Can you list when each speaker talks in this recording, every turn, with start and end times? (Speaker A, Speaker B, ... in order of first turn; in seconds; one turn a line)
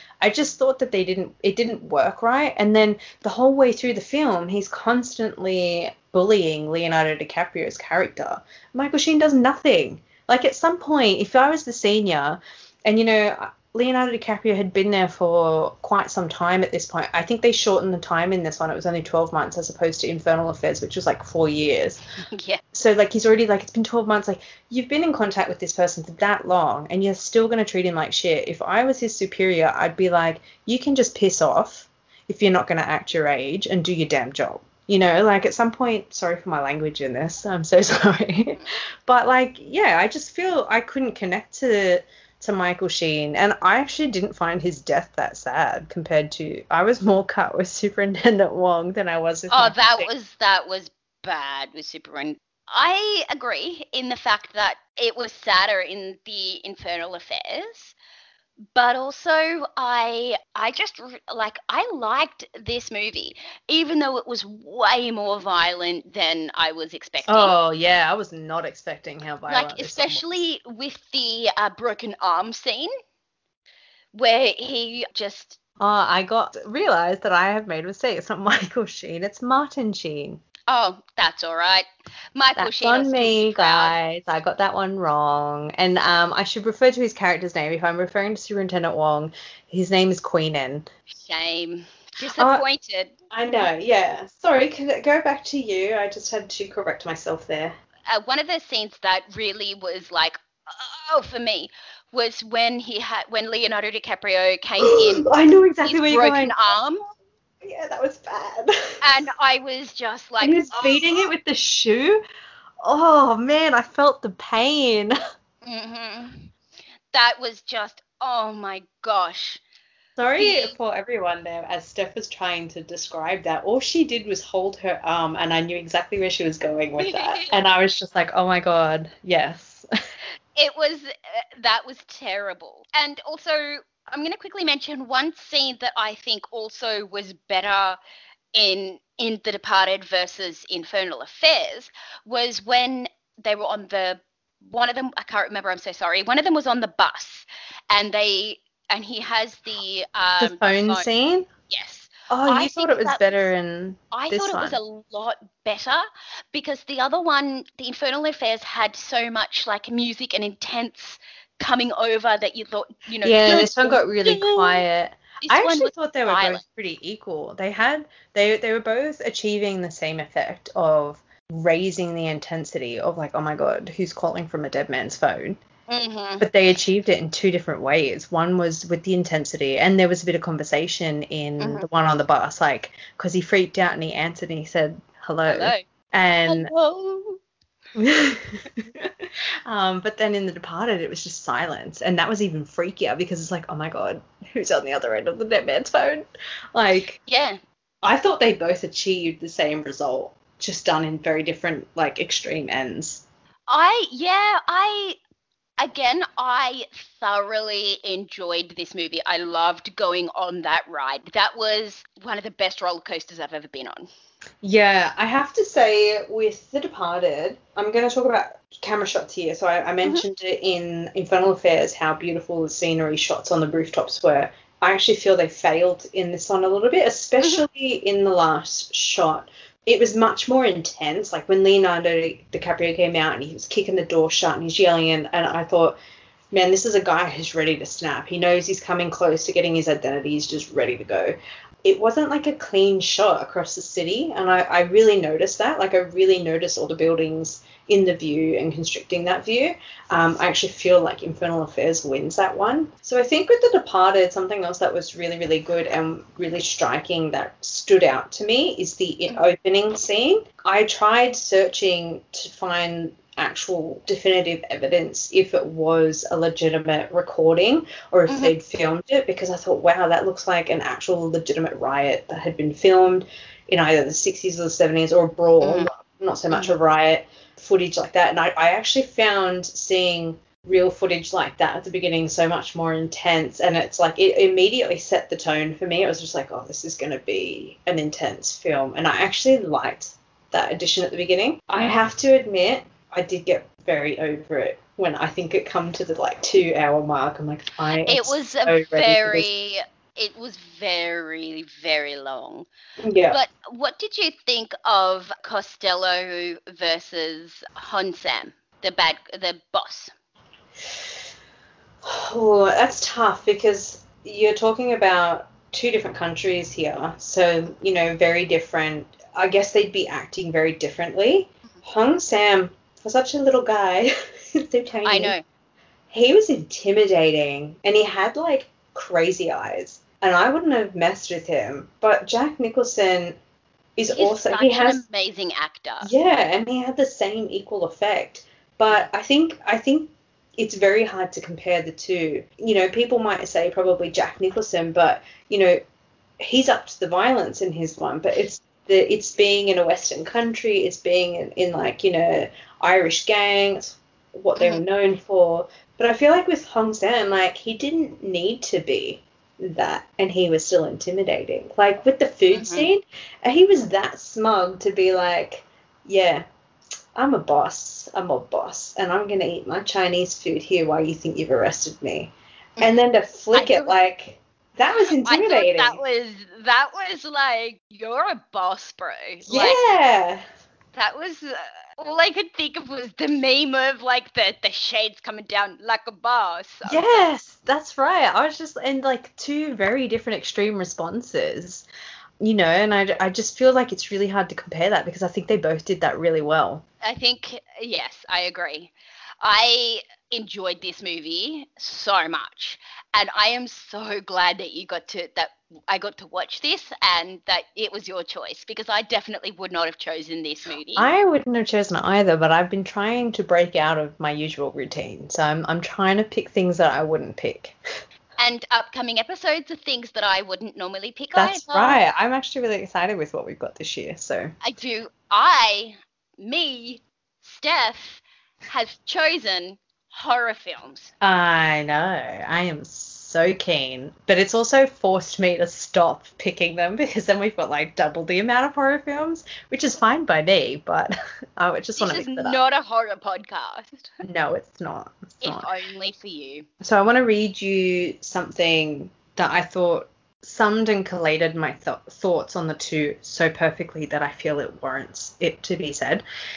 Speaker A: 0.2-22.0
Speaker B: 22.3-22.6
Speaker A: 22.7-50.1
Speaker B: 49.5-58.0
Speaker B: 58.7-67.5
Speaker A: 67.2-70.2
Speaker B: 69.5-72.9
Speaker B: 74.1-75.6
Speaker A: 75.8-80.4
Speaker B: 80.7-83.9
Speaker A: 82.6-90.9
Speaker B: 91.1-93.2
Speaker A: 92.4-92.6
Speaker A: 93.3-97.8
Speaker B: 98.1-105.3
Speaker A: 104.8-106.6
Speaker B: 105.8-107.0
Speaker A: 107.6-109.2
Speaker B: 109.0-111.3
Speaker A: 110.4-112.2
Speaker A: 112.8-115.2
Speaker B: 115.6-116.5
Speaker B: 117.1-119.6
Speaker A: 120.2-129.9
Speaker B: 120.4-120.8
Speaker B: 127.0-127.5
Speaker B: 130.6-138.0
Speaker B: 138.5-151.1
Speaker A: 150.4-151.5
Speaker B: 151.7-153.5
Speaker A: 152.3-154.8
Speaker B: 154.1-156.0
Speaker B: 156.5-164.8
Speaker A: 163.2-175.6
Speaker B: 165.4-166.6
Speaker B: 175.9-176.4
Speaker A: 176.4-186.7
Speaker B: 181.6-181.9
Speaker B: 185.5-185.8
Speaker B: 186.5-187.4
Speaker A: 188.0-196.2
Speaker A: 196.8-197.2
Speaker B: 197.3-197.6
Speaker A: 198.0-203.2
Speaker B: 203.7-205.2
Speaker B: 205.8-214.1
Speaker A: 214.6-236.0
Speaker B: 227.4-227.7
Speaker A: 236.5-299.5
Speaker B: 268.3-268.5
Speaker B: 275.6-275.9
Speaker B: 298.1-302.7
Speaker A: 303.0-303.4
Speaker B: 303.3-310.1
Speaker A: 312.0-325.4
Speaker B: 325.1-325.4
Speaker A: 326.1-333.4
Speaker A: 334.0-335.0
Speaker B: 334.1-336.1
Speaker A: 336.0-345.8
Speaker A: 346.4-366.4
Speaker B: 362.5-362.9
Speaker A: 367.1-376.0
Speaker B: 373.5-373.9
Speaker B: 375.2-379.8
Speaker A: 379.5-380.4
Speaker B: 380.9-387.1
Speaker A: 386.9-391.9
Speaker A: 392.4-396.8
Speaker B: 397.0-411.1
Speaker A: 411.0-417.8
Speaker B: 418.4-422.0
Speaker A: 421.4-424.5
Speaker B: 424.6-431.1
Speaker A: 431.2-442.6
Speaker B: 442.0-444.1
Speaker A: 444.2-445.7
Speaker B: 445.4-446.7
Speaker A: 446.8-456.2